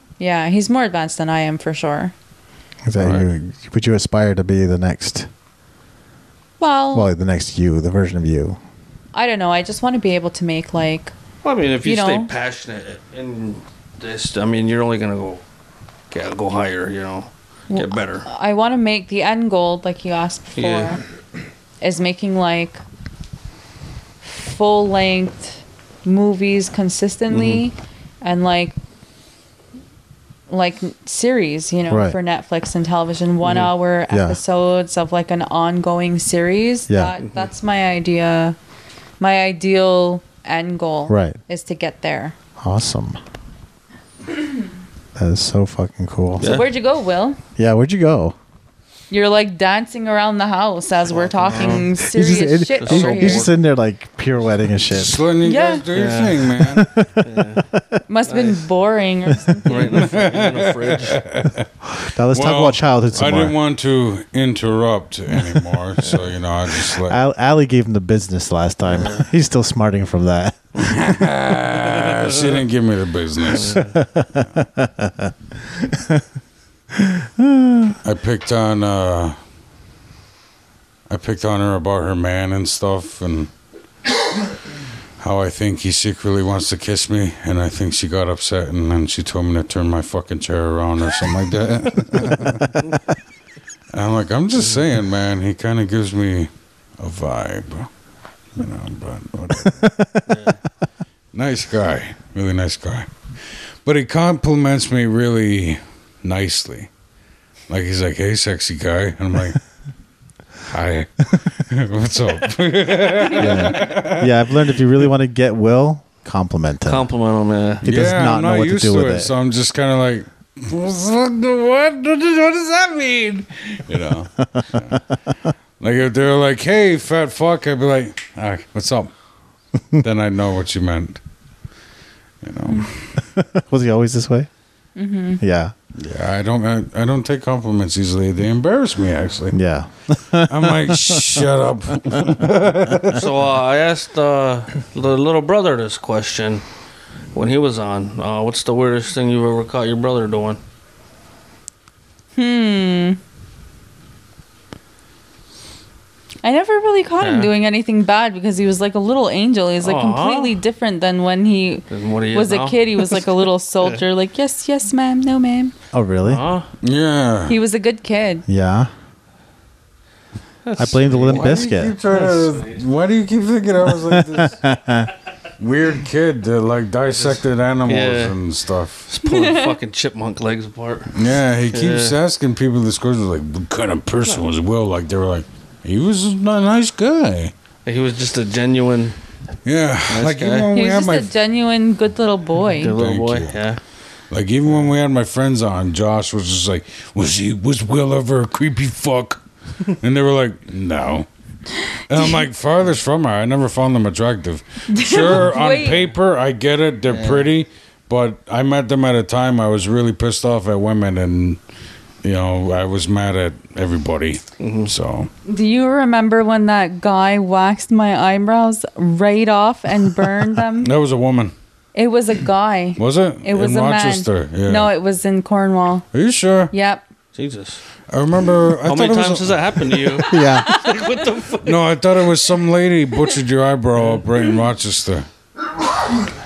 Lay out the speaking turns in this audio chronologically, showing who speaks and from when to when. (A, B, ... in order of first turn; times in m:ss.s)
0:00.2-0:02.1 A
0:02.8-0:05.3 B
0:03.0-0:03.2 C
0:06.6-0:07.1 A
0:06.9-0:08.6 B
0:09.1-0:11.1 A
0:11.4-0:15.4 C
0:11.8-0:12.3 A
0:16.1-0:18.2 C
0:17.7-0:21.0 A
0:20.6-0:21.0 C
0:21.8-0:22.8 A
0:24.2-0:28.8 A
0:27.3-0:27.6 C
0:30.5-0:38.6 A
0:31.9-0:32.2 B
0:33.4-0:33.7 C
0:34.1-0:34.4 B
0:36.9-0:37.1 B
0:39.2-0:42.3 A
0:41.1-0:41.4 B
0:42.6-0:43.2 B
0:45.1-0:46.5 B
0:46.4-0:46.7 C
0:46.4-0:47.4 A
0:47.6-0:48.3 B
0:49.1-0:53.5 A
0:51.1-0:52.0 C
0:51.6-0:55.2 B
0:52.8-0:53.6 C
0:54.8-0:56.9 D
0:55.4-0:55.8 A
0:55.9-0:56.5 C
0:56.5-0:58.0 B
0:57.2-0:57.6 C
0:58.1-1:00.0 A
0:58.3-0:58.6 C
0:59.6-1:01.2 C
0:59.8-1:01.7 D
1:01.9-1:03.6 B
1:02.3-1:07.2 D
1:06.9-1:10.6 B
1:08.9-1:09.3 C
1:10.8-1:13.9 D
1:13.4-1:13.9 C
1:13.7-1:16.2 B
1:16.9-1:18.0 B
1:18.0-1:19.4 D
1:21.1-1:23.5 D
1:25.2-1:32.9 D
1:33.9-1:37.9 D
1:38.6-1:39.9 D
1:39.6-1:40.4 B
1:40.3-1:40.6 C
1:41.3-1:43.1 D
1:43.8-1:46.9 D
1:47.7-1:49.6 D
1:50.7-1:54.5 D
1:53.3-1:57.0 B
1:56.8-1:57.8 C
1:57.8-1:59.3 B
1:57.8-2:05.0 D
2:04.4-2:05.0 B
2:05.8-2:09.1 D
2:10.0-2:11.2 D
2:12.4-2:13.1 D
2:13.2-2:14.5 B
2:15.0-2:15.4 A
2:15.4-2:15.7 B
2:15.9-2:19.6 D
2:19.5-2:21.4 B
2:20.5-2:23.2 D
2:23.1-2:26.6 C
2:27.3-2:30.6 C
2:32.3-2:33.2 A
2:36.4-2:45.7 A
2:37.2-2:37.5 C
2:39.8-2:40.6 C
2:41.9-2:43.3 C
2:45.9-2:46.4 B
2:46.2-2:46.7 C
2:46.8-2:47.6 D
2:47.5-2:48.4 A
2:48.5-2:48.9 B
2:50.6-2:52.8 C
2:50.8-2:51.9 B
2:51.2-2:54.6 D
2:53.9-2:55.1 B
2:55.6-2:59.1 D
2:57.1-2:58.4 C
2:59.1-3:01.2 C
2:59.2-2:59.8 A
3:01.1-3:07.5 D
3:01.7-3:02.2 C
3:07.8-3:09.2 C
3:09.6-3:11.3 D
3:10.1-3:10.7 C
3:10.7-3:13.0 A
3:12.7-3:13.8 C
3:12.9-3:13.6 D
3:14.3-3:19.4 D
3:20.0-3:21.3 D
3:22.1-3:31.6 D
3:24.9-3:26.1 A
3:27.1-3:27.5 C
3:32.2-3:35.3 D
3:34.6-3:34.9 C
3:35.4-3:40.9 A
3:40.8-3:41.5 D
3:41.9-3:46.1 A
3:43.0-3:44.9 D
3:46.1-3:46.7 D
3:46.7-3:47.0 A
3:47.3-3:47.8 C
3:48.1-3:50.2 D
3:48.8-3:51.8 C
3:50.3-3:50.7 B
3:50.3-3:51.2 A
3:51.6-3:55.3 D